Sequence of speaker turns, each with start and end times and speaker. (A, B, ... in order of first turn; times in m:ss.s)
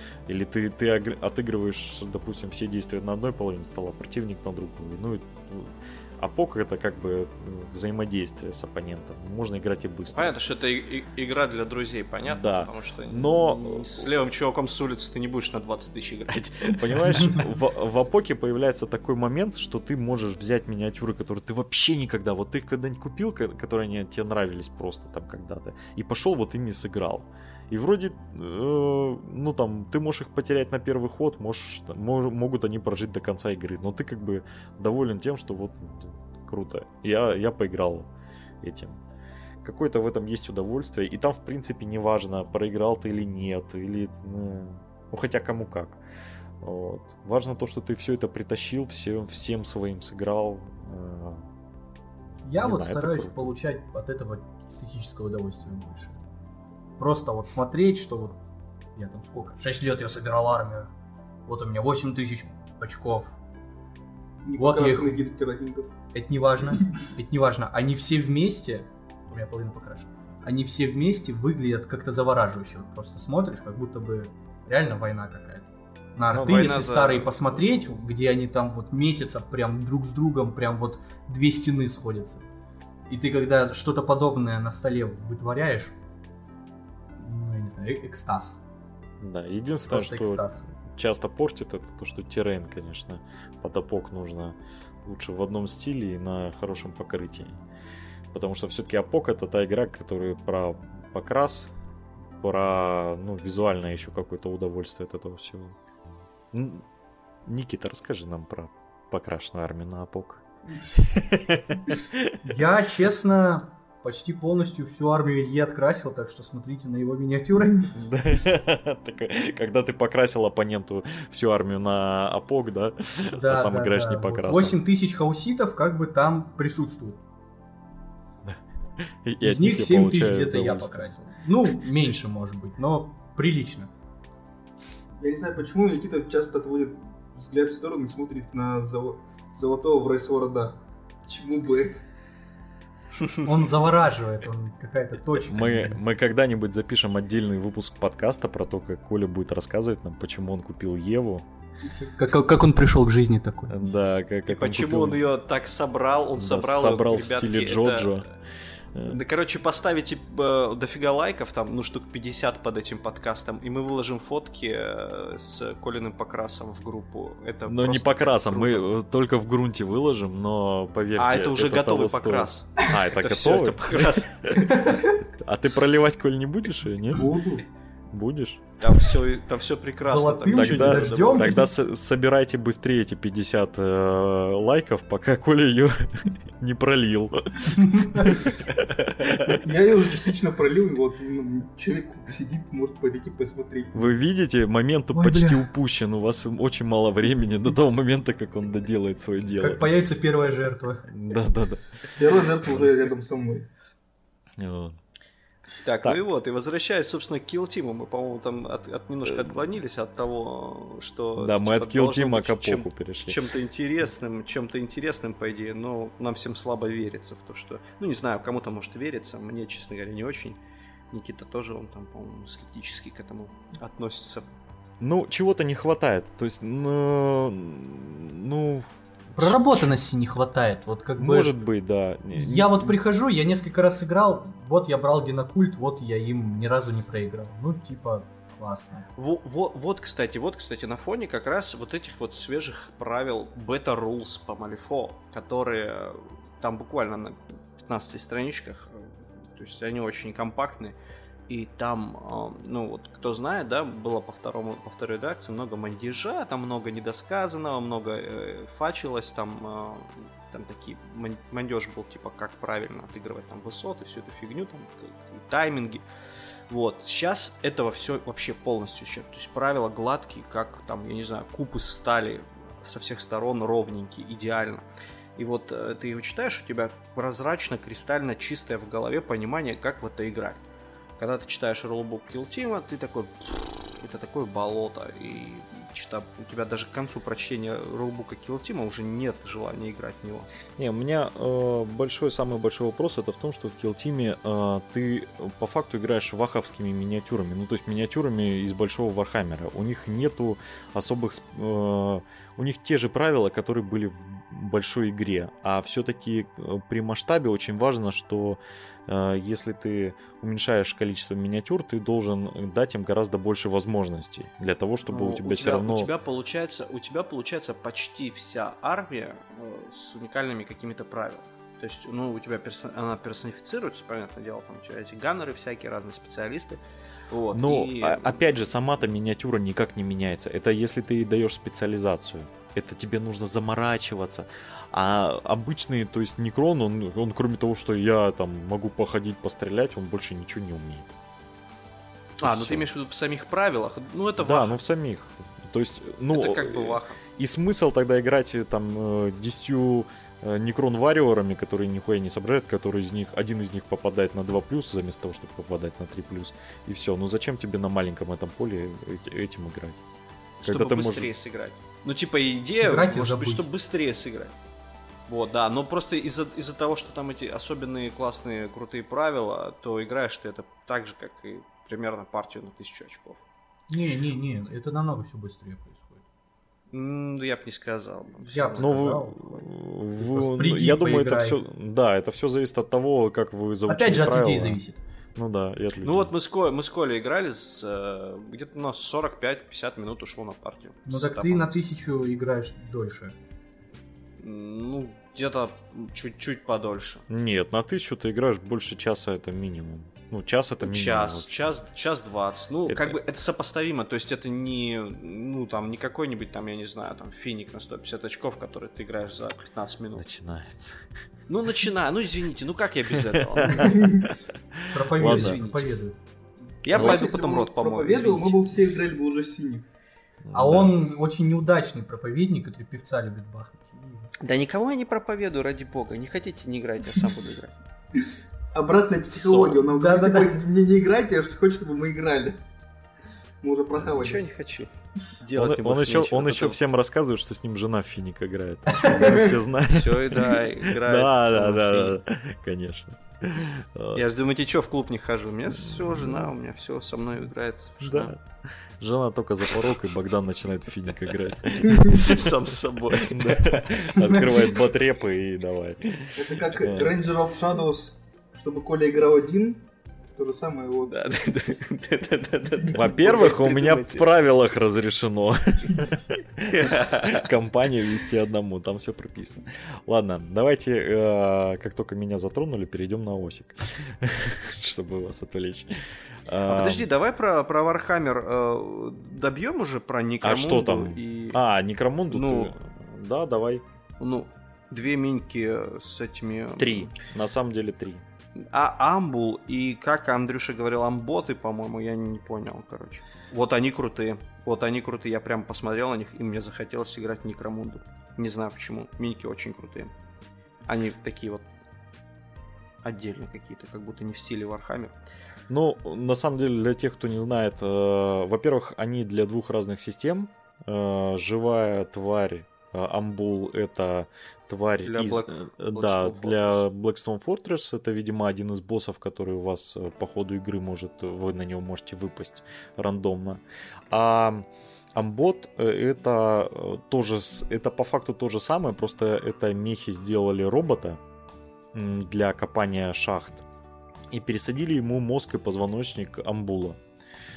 0:00.3-0:10.4 A
0:10.1-0:17.4 B
0:12.3-0:14.1 A
0:16.8-0:38.1 A
0:38.6-0:39.0 A
0:39.6-0:46.0 A
0:46.6-0:51.5 A
0:52.4-0:56.2 C
0:52.6-0:53.5 A
0:57.0-0:58.4 C
0:59.0-1:00.9 C
1:01.5-1:03.4 C
1:04.4-1:05.9 D
1:04.6-1:05.2 C
1:06.1-1:22.4 C
1:16.3-1:16.7 A
1:16.3-1:17.4 B
1:23.1-1:26.0 C
1:27.2-1:28.6 C
1:29.2-1:37.6 A
1:29.8-1:30.6 C
1:38.3-1:41.7 A
1:42.4-1:45.8 A
1:46.5-1:46.8 A
1:47.4-1:52.4 A
1:52.4-1:57.9 C
1:57.9-2:04.8 A
2:03.3-2:07.2 C
2:09.2-2:11.2 A
2:09.4-2:13.9 C
2:15.2-2:22.0 D
2:23.4-2:26.0 C
2:25.4-2:31.5 A
2:32.2-2:33.8 C
2:33.7-2:35.2 A
2:34.5-2:38.2 B
2:36.4-2:38.3 A
2:38.9-2:39.2 A
2:39.0-2:48.9 B
2:47.7-2:54.7 A
2:51.2-2:55.0 B
2:55.4-2:57.3 A
2:57.1-2:57.6 D
2:58.1-2:58.7 A
2:58.8-3:01.6 B
3:00.0-3:01.7 C
3:00.5-3:08.4 A
3:07.8-3:08.2 C
3:09.3-3:09.6 A
3:09.6-3:14.1 D
3:13.9-3:19.9 A
3:15.1-3:15.6 C
3:19.6-3:21.1 C
3:21.1-3:22.3 A
3:22.2-3:23.7 D
3:24.6-3:25.0 A
3:25.8-3:40.6 B
3:29.2-3:29.6 A
3:31.4-3:33.4 A
3:41.1-3:44.5 B
3:45.0-3:49.9 A
3:49.4-3:51.5 C
3:51.2-3:53.0 A
3:52.3-3:59.0 C
3:59.2-4:11.0 B
4:11.5-4:26.0 B
4:26.7-4:34.8 B
4:35.4-4:40.6 B
4:41.2-4:50.5 B
4:50.8-5:16.1 A
5:15.1-5:28.4 B
5:27.5-5:41.1 A
5:42.4-5:44.8 B
5:42.4-5:42.9 A
5:44.4-6:00.0 A
5:46.3-5:47.2 B
6:00.6-6:01.3 A
6:00.6-6:04.5 B
6:02.8-6:03.7 C
6:05.3-6:13.4 B
6:13.9-6:16.2 C
6:16.9-6:19.2 B
6:18.4-6:19.4 C
6:18.8-6:24.8 A
6:20.2-6:21.6 C
6:23.9-6:25.0 C
6:25.4-6:26.3 A
6:26.0-6:31.8 B
6:31.1-6:33.4 C
6:34.4-6:37.2 B
6:37.3-6:41.5 A
6:40.8-6:50.2 B
6:42.9-6:43.2 A
6:50.2-6:51.0 A
6:51.5-6:54.2 B
6:53.1-6:55.6 A
6:53.8-6:54.3 D
6:54.9-6:56.2 C
6:55.2-6:55.9 B
6:56.8-6:58.6 B
6:56.9-6:59.9 D
6:56.9-6:57.3 A
7:00.4-7:01.0 A
7:00.5-7:04.3 C
7:04.4-7:07.7 B
7:08.2-7:12.6 D
7:09.4-7:09.7 B
7:09.9-7:10.6 C
7:13.6-7:14.5 D
7:14.1-7:16.8 B
7:15.5-7:24.2 A
7:19.2-7:19.5 D
7:19.9-7:22.2 B
7:24.1-7:28.3 B
7:25.8-7:26.5 A
7:28.0-7:32.5 A
7:32.0-7:34.1 B
7:33.2-7:37.2 A
7:36.4-7:39.8 D
7:40.4-7:41.2 D
7:41.1-7:44.3 B
7:42.9-7:57.1 A
7:46.7-7:47.5 B
7:56.6-8:01.6 B
8:00.4-8:03.8 A
8:02.3-8:02.7 B
8:04.2-8:07.2 B
8:06.8-8:08.2 A
8:08.7-8:20.1 B
8:20.9-8:21.6 B
8:23.0-8:25.1 B
8:25.7-8:51.2 A
8:35.0-8:36.8 B
8:51.9-8:53.6 A
8:54.3-8:57.0 A